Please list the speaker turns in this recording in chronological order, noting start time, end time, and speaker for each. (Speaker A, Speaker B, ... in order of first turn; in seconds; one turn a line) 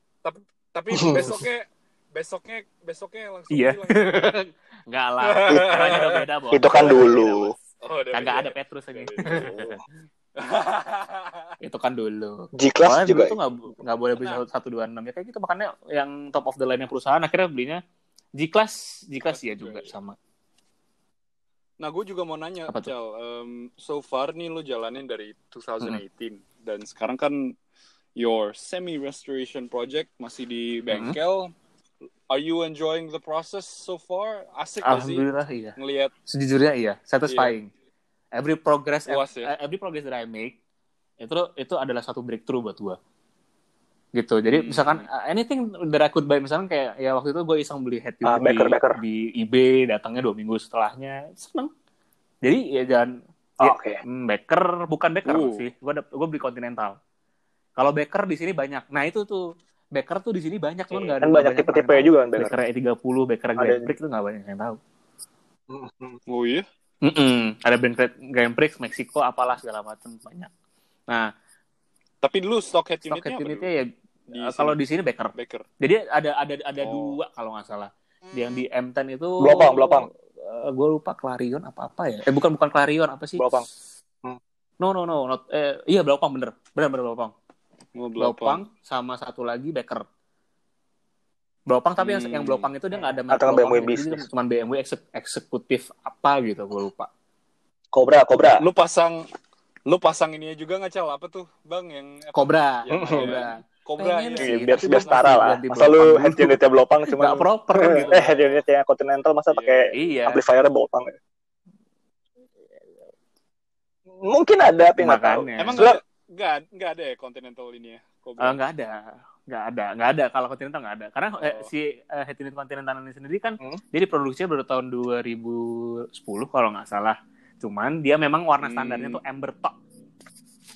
Speaker A: 0.2-4.3
Speaker B: 0.9-1.3
Speaker C: 3.5-7.3
Speaker A: 5.2-9.6
Speaker B: 6.5-7.5
Speaker C: 8.1-9.8
Speaker B: 9.2-9.7
Speaker A: 10.3-11.5
Speaker C: 11.6-17.8
Speaker B: 12.6-13.4
Speaker C: 18.4-20.1
Speaker A: 19.2-19.9
Speaker A: 21.8-27.5
Speaker A: 28.2-31.5
Speaker C: 30.9-31.1
Speaker A: 32.3-35.2
Speaker C: 34.8-35.8
Speaker A: 35.8-36.1
Speaker C: 36.3-37.7
Speaker A: 37.3-37.5
Speaker C: 38.3-40.6
Speaker A: 39.1-39.5
Speaker C: 41.2-43.0
Speaker C: 44.1-51.7
Speaker A: 44.5-45.0
Speaker B: 48.2-49.0
Speaker C: 52.4-57.0
Speaker B: 53.6-54.0
Speaker A: 55.2-55.6
Speaker C: 57.8-59.4
Speaker C: 59.9-64.8
Speaker B: 60.9-62.5
Speaker B: 63.6-63.9
Speaker B: 65.7-66.2
Speaker A: 66.3-66.7
Speaker C: 67.0-70.5
Speaker A: 72.2-73.7
Speaker C: 73.1-83.6
Speaker A: 74.3-74.8
Speaker A: 75.3-75.6
Speaker A: 76.8-77.2
Speaker B: 79.4-80.1
Speaker B: 83.4-83.7
Speaker C: 84.8-87.3
Speaker A: 87.9-88.6
Speaker C: 88.2-90.0
Speaker C: 91.7-97.1
Speaker A: 92.0-92.7
Speaker B: 93.3-94.2
Speaker B: 97.9-98.6
Speaker A: 98.5-99.2
Speaker A: 99.9-105.5
Speaker C: 102.3-108.3
Speaker B: 102.9-103.4
Speaker B: 104.4-111.1
Speaker A: 107.8-108.6
Speaker A: 109.5-110.1
Speaker C: 109.9-110.4
Speaker B: 114.2-116.0
Speaker C: 115.0-115.8
Speaker A: 115.6-118.6
Speaker C: 118.4-129.8
Speaker A: 121.4-121.7
Speaker A: 128.6-129.2